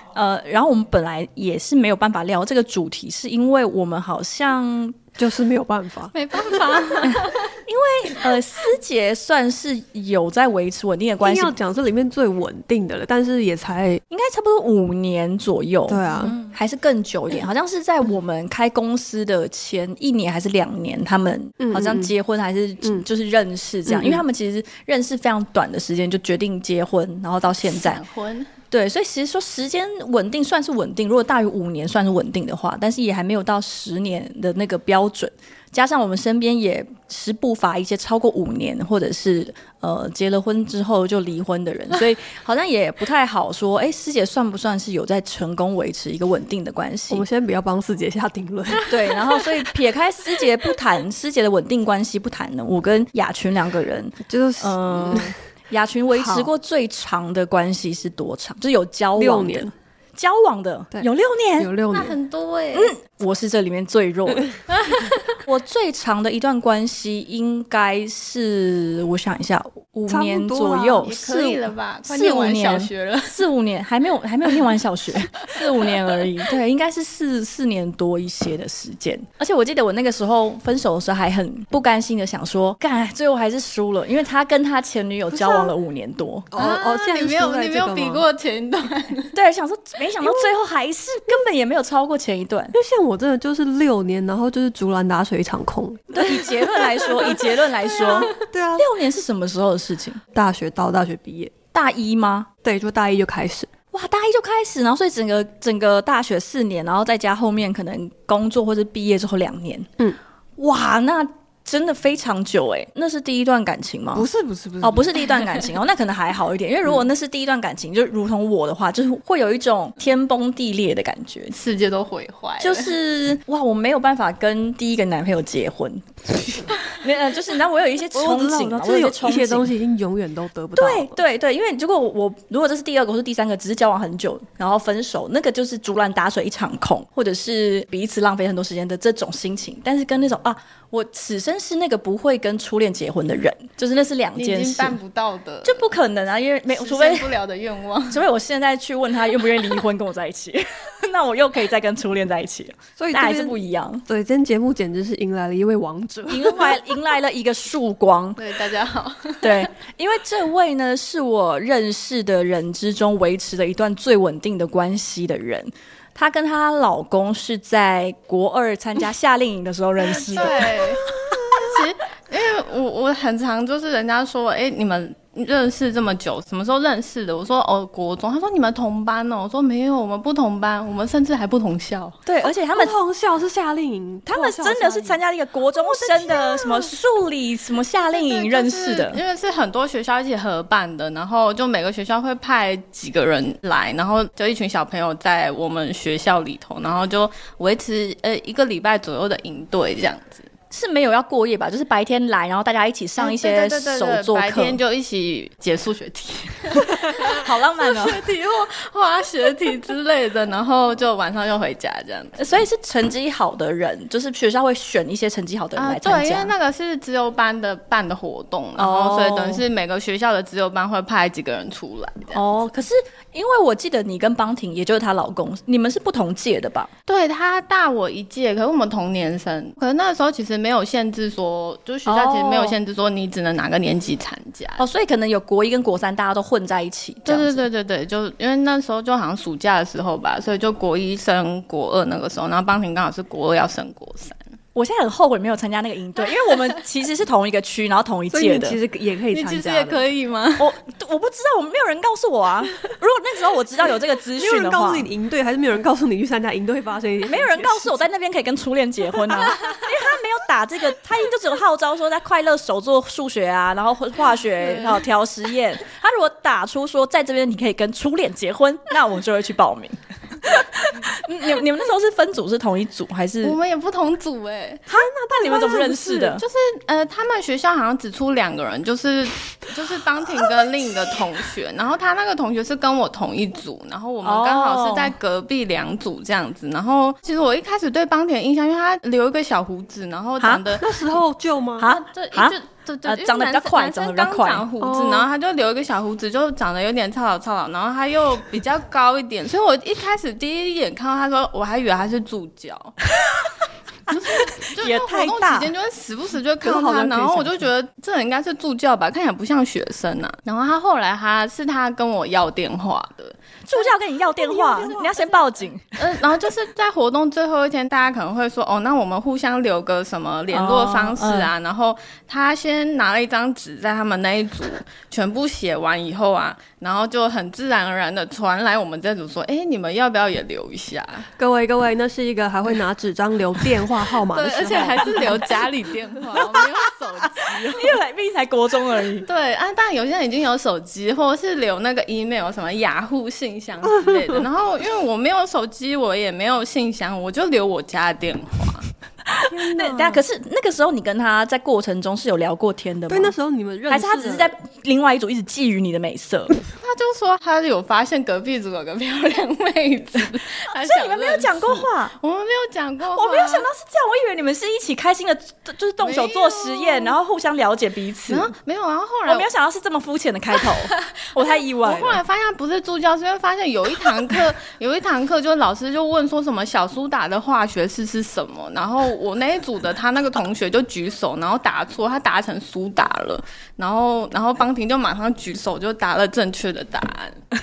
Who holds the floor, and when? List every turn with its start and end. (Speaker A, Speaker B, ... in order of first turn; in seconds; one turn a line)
Speaker A: 0.1-5.0
Speaker B: 5.2-6.9
Speaker C: 6.1-7.5
Speaker A: 7.0-11.6
Speaker B: 11.2-14.0
Speaker A: 14.1-28.0
Speaker B: 15.9-16.4
Speaker C: 16.2-16.5
Speaker B: 21.6-22.1
Speaker B: 23.9-24.2
Speaker C: 27.6-28.5
Speaker A: 28.7-47.2
Speaker B: 47.1-49.4
Speaker A: 48.9-61.8
Speaker B: 54.3-55.3
Speaker B: 56.1-56.5
Speaker B: 59.2-59.7
Speaker B: 61.6-62.1
Speaker C: 61.9-62.9
Speaker A: 62.7-64.5
Speaker C: 64.7-65.3
Speaker A: 65.5-86.5
Speaker B: 70.1-71.1
Speaker C: 71.0-73.3
Speaker C: 75.5-76.0
Speaker B: 85.3-85.7
Speaker B: 86.5-88.2
Speaker C: 86.6-89.3
Speaker A: 89.3-92.8
Speaker B: 90.2-90.5
Speaker B: 92.7-96.4
Speaker A: 96.1-100.2
Speaker B: 98.0-98.9
Speaker C: 98.0-98.4
Speaker B: 100.3-101.5
Speaker A: 101.7-102.5
Speaker B: 102.6-103.7
Speaker A: 103.9-109.9
Speaker A: 110.6-114.3
Speaker B: 114.1-115.1
Speaker A: 114.8-121.5
Speaker C: 121.5-122.9
Speaker A: 122.6-129.7
Speaker B: 128.1-131.2
Speaker A: 130.8-145.0
Speaker C: 144.4-145.9
Speaker A: 145.6-147.3
Speaker C: 146.7-148.2
Speaker A: 148.1-154.0
Speaker B: 153.0-156.8
Speaker A: 156.3-158.4
Speaker C: 158.4-159.7
Speaker A: 159.4-170.8
Speaker C: 170.1-182.2
Speaker B: 170.8-171.7
Speaker A: 182.3-182.9
Speaker B: 182.5-185.2
Speaker A: 184.3-189.2
Speaker B: 185.9-186.8
Speaker C: 188.1-200.5
Speaker A: 200.7-204.8
Speaker C: 203.2-212.4
Speaker A: 207.3-208.2
Speaker A: 212.4-216.5
Speaker C: 215.8-222.5
Speaker A: 218.8-219.6
Speaker A: 222.3-226.9
Speaker C: 227.1-234.8
Speaker A: 232.1-232.8
Speaker A: 234.8-237.6
Speaker C: 237.3-244.4
Speaker A: 244.8-248.8
Speaker B: 248.3-250.0
Speaker C: 249.3-250.7
Speaker A: 250.6-255.1
Speaker B: 254.3-258.1
Speaker A: 257.3-273.6
Speaker C: 273.4-274.9
Speaker A: 274.9-276.4
Speaker B: 274.9-276.3
Speaker C: 276.4-290.9
Speaker A: 284.2-285.1
Speaker A: 290.4-290.8
Speaker B: 290.8-291.9
Speaker A: 291.8-294.6
Speaker C: 291.8-303.0
Speaker B: 294.8-295.3
Speaker A: 304.1-305.7
Speaker C: 304.2-313.4
Speaker B: 306.6-307.7
Speaker A: 313.6-316.1
Speaker B: 314.4-315.2
Speaker C: 314.5-315.1
Speaker C: 316.0-331.3
Speaker A: 320.5-321.5
Speaker B: 331.4-335.5
Speaker C: 334.3-338.0
Speaker A: 336.3-339.3
Speaker C: 339.2-348.9
Speaker B: 343.9-344.4
Speaker A: 349.3-353.3
Speaker B: 349.5-350.2
Speaker B: 353.1-354.5
Speaker A: 353.9-356.6
Speaker C: 356.8-363.7
Speaker A: 360.7-362.1
Speaker A: 363.1-368.5
Speaker C: 366.0-367.2
Speaker C: 368.3-369.5
Speaker A: 369.3-372.2
Speaker C: 370.6-387.4